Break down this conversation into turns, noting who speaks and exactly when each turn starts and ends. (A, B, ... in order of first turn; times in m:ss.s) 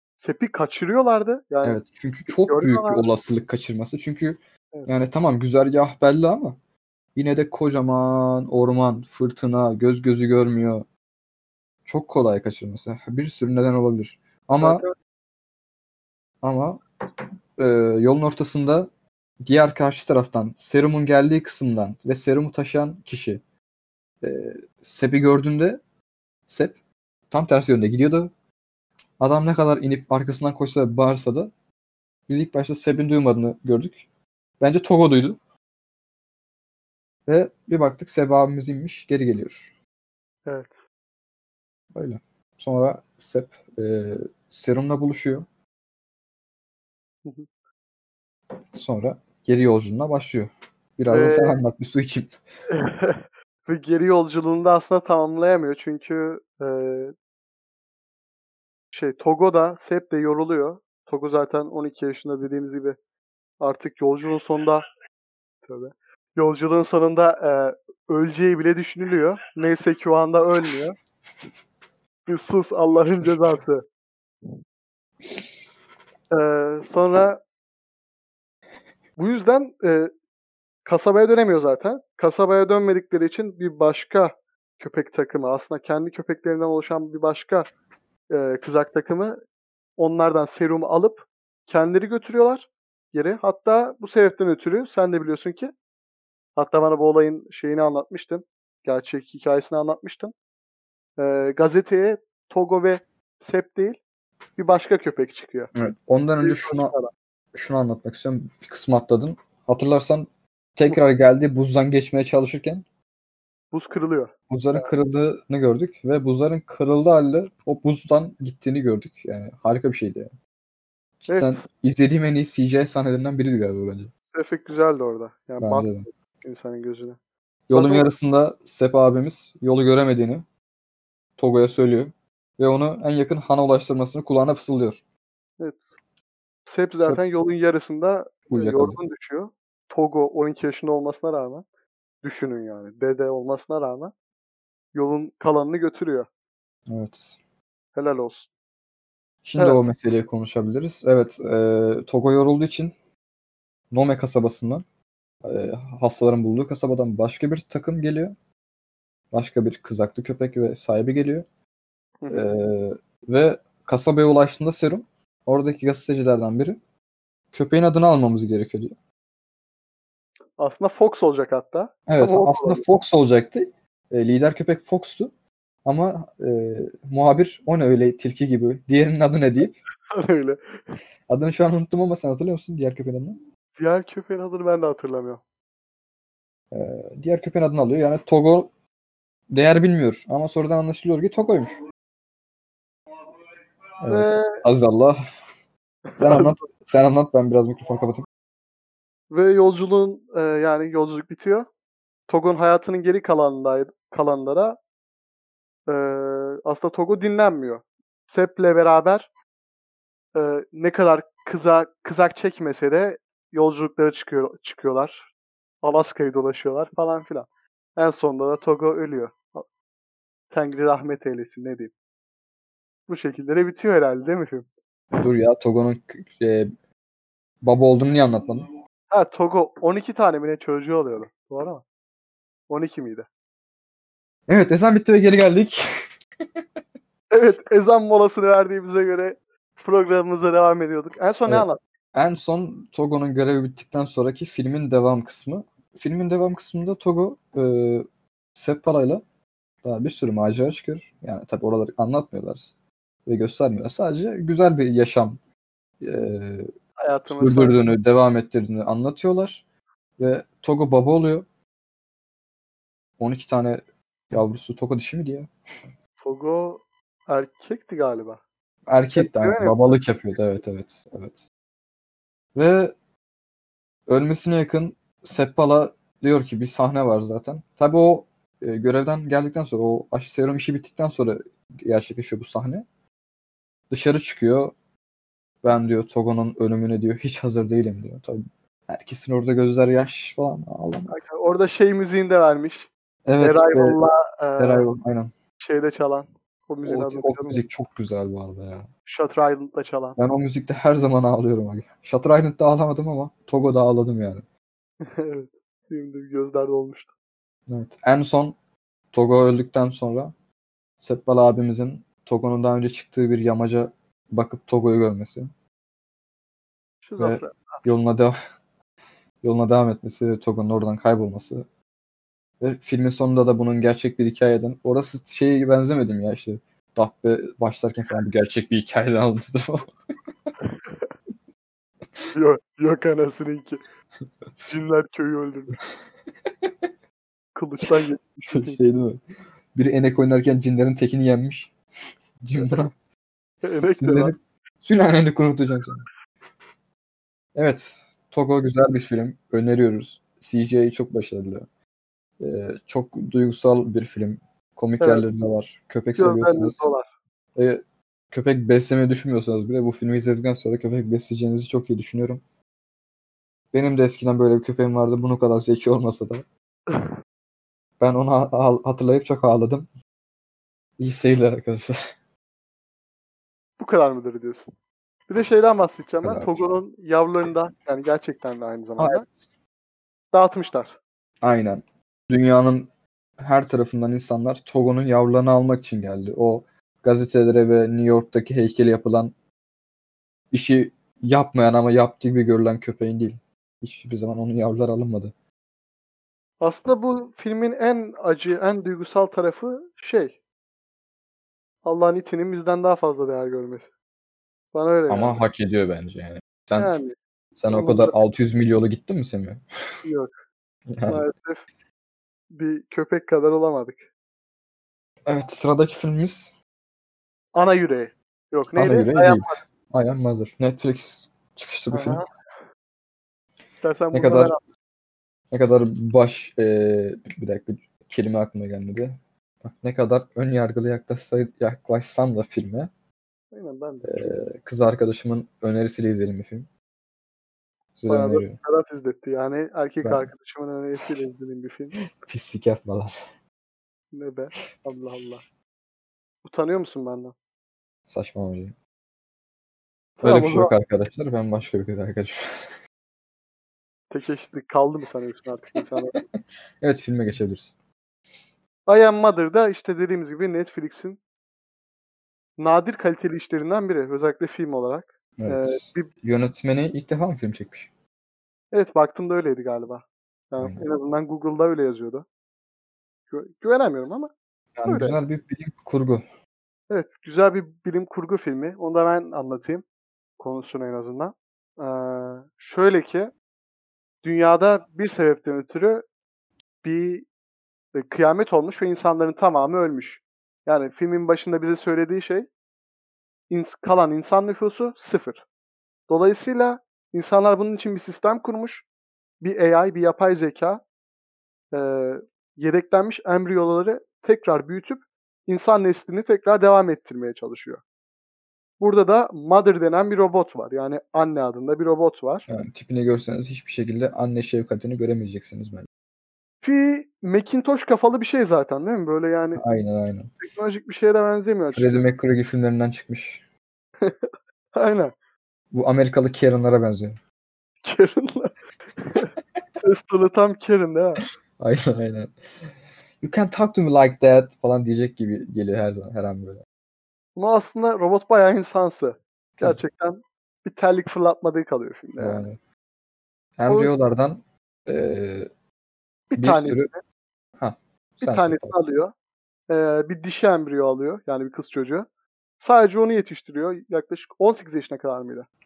0:00.2-0:03.0 A
0:01.6-0:06.6 B
0:07.2-0:10.8 B
0:11.9-0:14.8 B
0:14.6-0:14.9 A
0:16.4-0:16.8 B
0:17.6-0:18.9 B
0:19.4-0:23.4 B
0:24.2-0:25.8 B
0:26.5-0:26.8 B
0:27.3-0:28.3 B
0:29.2-0:31.5 B
0:32.3-0:34.0 B
0:34.6-0:35.4 B
0:37.2-0:39.7 B
0:40.5-0:40.8 A
0:41.9-0:45.4 B
0:48.8-0:52.4 B
0:51.1-0:51.6 A
0:52.7-0:57.1 A
0:58.9-1:03.0 A
1:03.6-1:04.8 A
1:05.6-1:11.0 A
1:12.3-1:13.8 A
1:16.3-1:17.4 A
1:19.2-1:20.1 A
1:20.8-1:27.7 A
1:28.3-1:29.4 A
1:30.0-1:35.7 A
1:36.6-1:40.3 A
1:41.2-1:44.0 A
1:44.6-1:45.7 A
1:45.8-1:46.9 B
1:46.4-1:47.1 A
1:47.5-1:52.8 B
1:53.7-1:54.9 A
1:54.5-2:00.3 B
2:01.2-2:04.1 B
2:01.3-2:01.6 A
2:04.3-2:07.2 A
2:05.6-2:06.0 B
2:07.7-2:10.4 B
2:07.7-2:08.1 A
2:11.4-2:15.0 B
2:15.6-2:16.0 A
2:16.7-2:21.6 A
2:18.5-2:19.0 B
2:22.2-2:24.1 A
2:24.9-2:26.3 A
2:26.9-2:27.4 B
2:28.0-2:28.5 A
2:29.4-2:32.9 B
2:33.9-2:34.8 B
2:35.4-2:38.3 B
2:39.3-2:41.5 B
2:42.2-2:42.5 A
2:42.3-2:46.8 B
2:47.5-2:48.9 B
2:50.6-2:52.8 A
2:52.1-2:55.3 B
2:55.8-2:59.8 B
3:00.1-3:00.6 A
3:01.3-3:03.4 B
3:03.8-3:05.4 A
3:06.7-3:08.7 B
3:09.5-3:11.8 B
3:14.0-3:15.2 B
3:14.1-3:14.6 A
3:16.1-3:16.6 A
3:16.2-3:18.2 B
3:19.3-3:21.7 A
3:22.3-3:24.8 A
3:25.9-3:29.3 A
3:30.3-3:35.3 A
3:35.8-3:39.7 A
3:40.5-3:41.9 A
3:43.1-3:44.7 A
3:45.2-3:46.7 B
3:47.6-3:48.7 B
3:49.1-3:51.8 A
3:52.7-3:53.3 A
3:54.5-3:55.8 B
3:57.3-4:01.8 A
4:01.5-4:09.2 B
4:09.8-4:12.7 B
4:13.2-4:15.4 B
4:16.0-4:16.7 B
4:17.0-4:17.8 A
4:17.3-4:19.6 B
4:20.2-4:21.5 B
4:23.2-4:25.5 B
4:26.2-4:28.4 A
4:28.9-4:31.5 B
4:29.1-4:30.0 A
4:32.5-4:32.9 B
4:34.1-4:42.8 B
4:43.9-4:44.7 B
4:45.6-4:51.2 B
4:51.1-4:52.9 A
4:53.2-4:54.0 B
4:53.4-4:54.9 A
4:54.6-4:55.3 B
4:55.6-4:57.6 A
4:56.8-4:58.9 B
4:59.0-5:00.2 A
5:00.2-5:04.4 B
5:05.0-5:07.1 A
5:07.7-5:08.5 B
5:09.1-5:10.3 B
5:11.0-5:15.5 B
5:17.0-5:17.8 A
5:17.2-5:18.4 B
5:19.4-5:21.6 B
5:22.6-5:29.9 B
5:30.6-5:31.1 A
5:32.3-5:33.8 A
5:34.7-5:35.8 A
5:37.5-5:38.8 A
5:38.5-5:39.2 B
5:39.8-5:41.7 B
5:42.4-5:42.9 B
5:42.6-5:42.8 A
5:43.6-5:44.3 A
5:44.0-5:46.0 B
5:47.5-5:51.7 B
5:52.4-5:56.9 B
5:56.2-5:57.1 A
5:57.6-6:02.4 B
6:03.7-6:06.4 B
6:08.0-6:09.9 B
6:11.0-6:12.0 B
6:13.8-6:14.6 A
6:15.3-6:19.2 A
6:16.2-6:16.8 B
6:19.0-6:19.5 B
6:20.3-6:21.0 A
6:21.4-6:22.9 B
6:23.4-6:29.3 B
6:30.5-6:35.3 B
6:36.6-6:40.4 A
6:41.8-6:43.9 A
6:44.7-6:45.4 A
6:45.1-6:46.9 B
6:46.8-6:47.1 A
6:47.6-6:49.6 B
6:47.7-6:48.1 A
6:50.0-6:50.3 A
6:50.9-6:51.2 B
6:51.1-6:51.6 A
6:52.5-6:54.0 A
6:55.2-6:56.5 B
6:57.5-6:59.6 A
6:58.8-7:02.2 B
7:01.9-7:02.2 A
7:03.8-7:04.6 A
7:04.1-7:04.5 B
7:05.5-7:12.9 B
7:13.5-7:14.4 A
7:14.0-7:16.7 B
7:18.0-7:18.6 B
7:18.1-7:22.0 A
7:20.0-7:20.3 B
7:22.0-7:23.1 B
7:24.1-7:25.4 A
7:26.4-7:27.3 A
7:28.1-7:28.8 B
7:30.2-7:30.7 A
7:30.2-7:32.8 B
7:34.1-7:36.2 A
7:36.8-7:37.8 B
7:38.9-7:41.2 A
7:42.6-7:46.1 A
7:45.4-7:47.9 B
7:48.7-7:52.2 A
7:50.6-7:50.9 B
7:53.3-7:54.3 A
7:54.8-7:56.2 B
7:54.9-7:55.2 A
7:56.9-7:59.8 A
8:00.4-8:03.3 A
8:04.2-8:06.0 A
8:06.8-8:07.3 A
8:08.0-8:12.5 A
8:13.5-8:15.4 A
8:16.1-8:18.8 A
8:19.4-8:20.8 A
8:21.7-8:27.8 A
8:28.8-8:32.4 A
8:32.5-8:35.9 B
8:36.6-8:39.6 A
8:39.6-8:40.3 B
8:40.4-8:42.1 A
8:41.7-8:43.4 B
8:44.0-8:45.1 A
8:45.7-8:47.2 B
8:47.8-8:51.2 A
8:51.6-8:52.3 B
8:53.2-8:56.6 B
8:57.4-9:02.5 A
9:02.2-9:02.6 B
9:03.6-9:05.5 B
9:06.3-9:07.0 A
9:06.4-9:06.9 B
9:07.6-9:08.8 B
9:08.2-9:09.1 A
9:09.7-9:12.0 A
9:12.6-9:15.5 A